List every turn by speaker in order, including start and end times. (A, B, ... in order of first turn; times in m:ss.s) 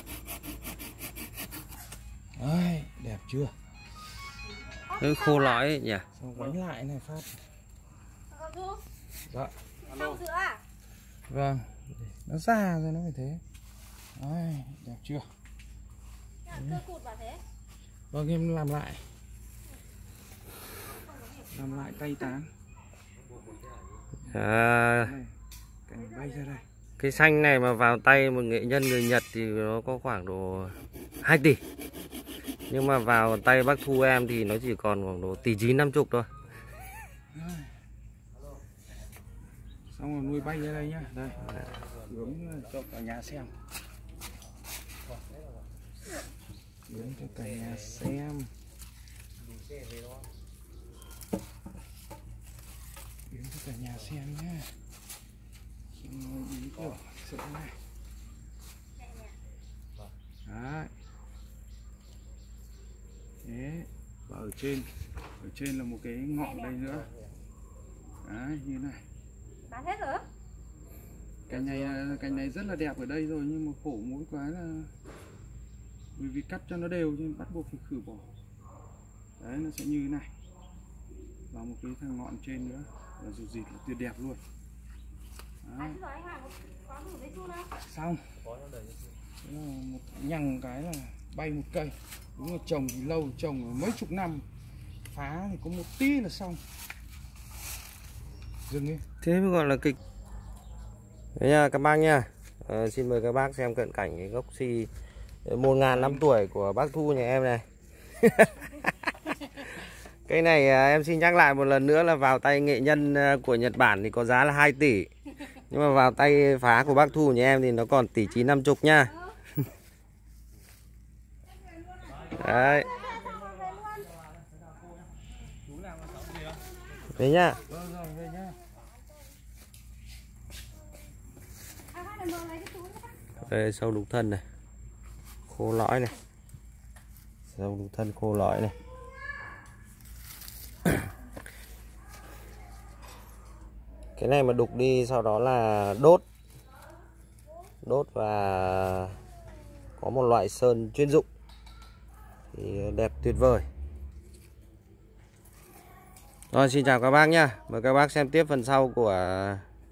0:02.4-0:03.6 A
0:04.9-0:06.1 B
0:06.2-0:07.4 A
0:08.3-0:08.8 C
0:09.3-0:09.6 A
0:09.9-0:10.6 C
0:11.3-0:13.4 A
0:14.2-0:15.3 A
0:16.5-0:16.9 A
0:16.8-0:17.4 C
0:18.1-0:19.1 A
0:21.5-0:22.5 A
0:24.3-0:25.2 B
0:25.0-0:25.3 A
0:25.9-0:26.6 A
0:27.0-0:31.6 B
0:32.7-0:36.3 B
0:37.3-0:37.7 A
0:39.9-0:43.5 A
0:46.9-0:48.5 A
0:53.3-0:54.7 A
0:56.0-0:57.8 A
1:00.5-1:00.9 A
1:03.4-1:04.9 A
1:05.4-1:07.1 A
1:08.2-1:09.0 A
1:09.7-1:10.2 C
1:11.5-1:14.9 A
1:16.2-1:18.3 A
1:19.4-1:20.3 A
1:21.5-1:24.4 A
1:25.6-1:26.1 A
1:26.2-1:27.6 C
1:27.7-1:28.2 A
1:29.4-1:34.4 A
1:35.1-1:36.6 A
1:38.7-1:39.0 A
1:39.2-1:40.0 B
1:41.4-1:44.9 B
1:45.4-1:47.6 B
1:45.9-1:46.2 A
1:48.2-1:59.3 B
2:02.3-2:03.0 B
2:03.2-2:04.1 C
2:07.1-2:07.6 B
2:07.7-2:08.6 A
2:12.0-2:13.2 C
2:13.4-2:14.4 B
2:15.5-2:16.2 B
2:17.5-2:18.8 B
2:24.2-2:26.2 B
2:27.8-2:29.2 B
2:30.0-2:31.3 B
2:32.5-2:33.7 B
2:36.5-2:39.6 B